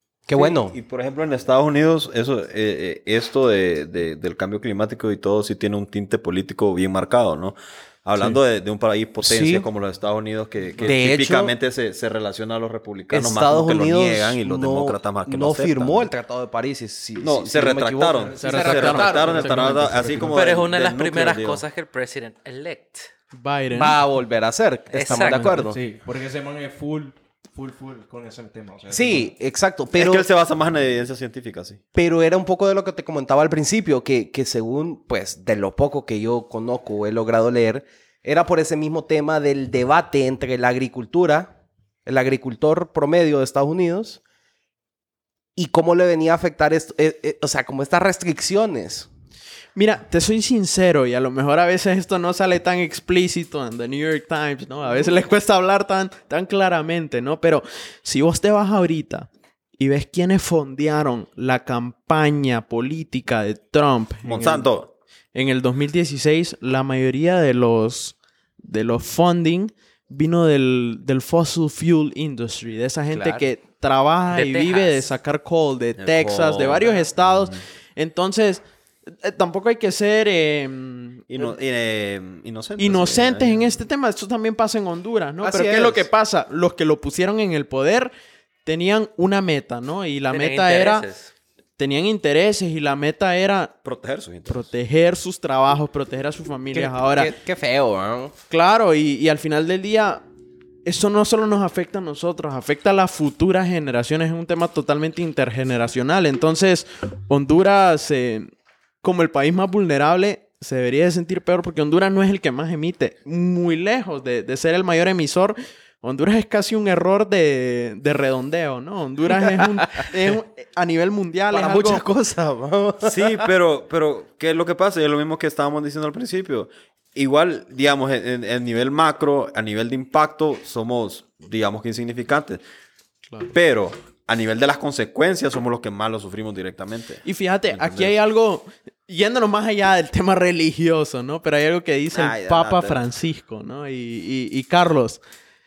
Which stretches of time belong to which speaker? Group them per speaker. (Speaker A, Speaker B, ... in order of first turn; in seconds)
Speaker A: 0.3-0.7, 9.2-9.7, 10.8-11.5, 13.1-19.1, 23.7-25.8, 28.9-30.2, 31.9-41.5, 42.0-44.2, 45.5-49.1, 73.1-73.5, 85.4-86.1, 96.7-98.3, 119.3-120.1, 121.5-123.5
Speaker B: 0.3-16.1, 17.2-21.6, 29.9-31.8, 64.2-64.9, 76.0-77.5, 81.3-83.8, 93.8-94.7, 123.0-132.6, 133.5-138.2, 142.1-143.0
Speaker C: 18.1-20.5, 25.6-29.3
Speaker D: 18.4-19.9, 23.3-24.0, 49.7-64.7, 65.3-81.5, 82.8-88.1, 88.6-91.1, 91.8-93.7, 94.5-97.3, 98.5-100.2, 100.8-108.5, 109.0-122.0, 137.2-145.2
Speaker E: 20.3-23.1, 24.9-25.6, 74.3-75.1, 90.3-91.3